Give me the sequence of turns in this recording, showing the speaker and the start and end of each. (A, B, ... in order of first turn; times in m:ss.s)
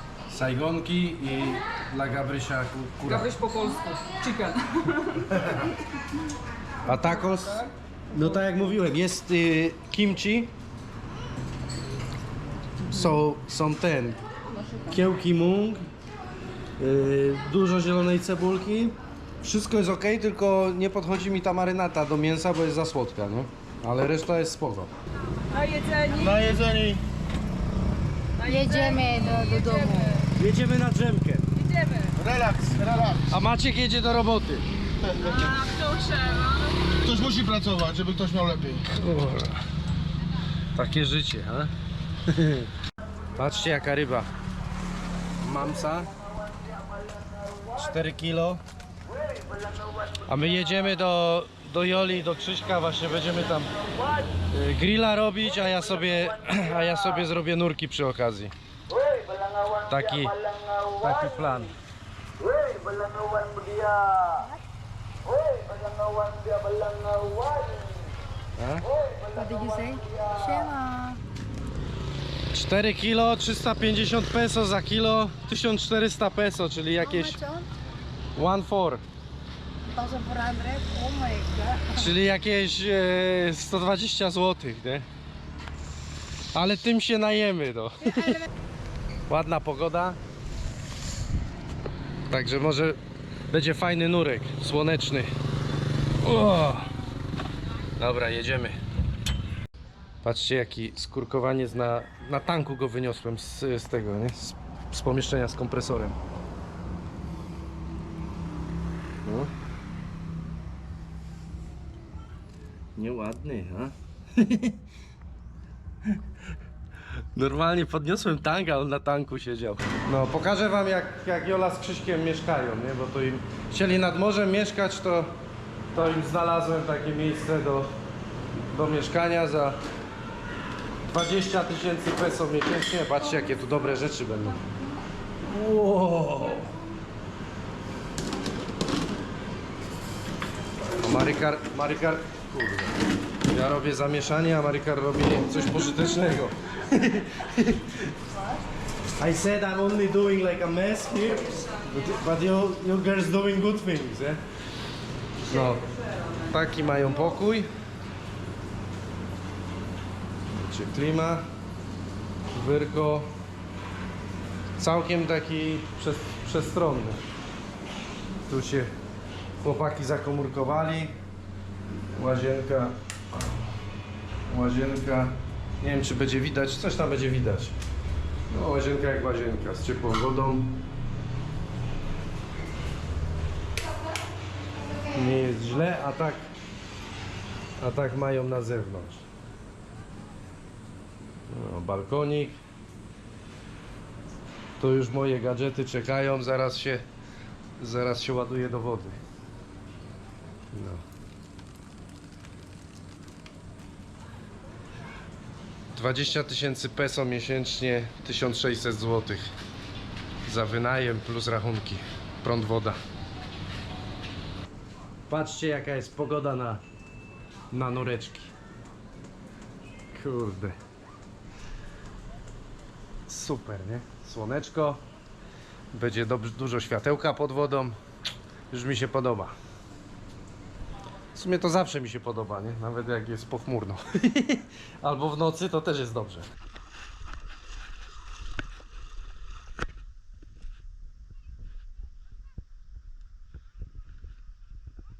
0:00.3-0:03.3 A
0:03.0-0:05.4 B
0:05.3-0:05.7 A
0:06.8-0:10.5 A
0:12.9-0:14.2 A
0:12.9-0:13.2 B
0:14.5-0:15.0 B
0:14.9-0:15.8 A
0:16.8-0:24.9 A
0:25.5-0:26.6 B
0:26.2-0:27.0 C
0:28.4-0:30.3 B
0:28.4-0:30.2 D
0:30.4-0:31.4 A
0:31.5-0:32.1 B
0:32.2-0:33.3 C
0:33.3-0:34.6 A
0:35.0-0:35.3 C
0:35.2-0:37.0 B
0:37.0-0:38.8 C
0:38.8-0:39.6 A
0:40.7-0:41.7 A
0:42.3-0:42.7 A
0:43.4-0:44.3 A
0:45.4-0:46.1 A
0:47.7-0:48.6 A
0:50.2-0:53.7 A
0:54.5-0:58.5 A
0:59.9-1:00.4 A
1:00.9-1:01.7 A
1:08.6-1:08.8 A
1:09.3-1:11.2 D
1:12.5-1:17.4 A
1:17.0-1:17.7 D
1:18.4-1:19.0 A
1:19.9-1:22.1 D
1:22.0-1:25.0 A
1:26.5-1:28.4 A
1:29.3-1:30.2 A
1:32.3-1:33.0 A
1:33.5-1:35.3 A
1:36.2-1:36.9 A
1:38.0-1:38.8 A
1:40.2-1:46.2 A
1:49.2-1:49.5 A
1:53.0-1:54.8 A
1:57.3-2:05.3 A
2:05.9-2:07.9 A
2:08.7-2:09.8 A
2:11.1-2:14.7 A
2:15.4-2:16.7 A
2:21.0-2:23.0 A
2:23.5-2:28.1 A
2:29.2-2:34.4 A
2:31.7-2:32.2 B
2:35.4-2:35.8 A
2:35.5-2:37.1 B
2:36.5-2:37.7 A
2:40.5-2:41.4 A
2:42.5-2:43.3 A
2:44.8-2:47.2 A
2:48.5-2:48.9 A
2:49.6-2:51.2 A
2:52.1-2:53.0 A
2:54.5-2:57.8 A
2:58.5-3:00.7 A
3:05.1-3:06.5 A
3:07.8-3:09.2 A
3:11.5-3:12.6 A
3:14.8-3:17.0 A
3:17.8-3:19.2 A
3:20.7-3:21.0 A
3:25.9-3:29.5 A
3:30.4-3:33.0 A
3:35.3-3:36.8 A
3:37.7-3:38.5 A
3:40.1-3:40.8 A
3:43.3-3:45.0 A
3:45.9-3:48.0 A
3:48.7-3:49.5 A
3:51.3-3:56.5 A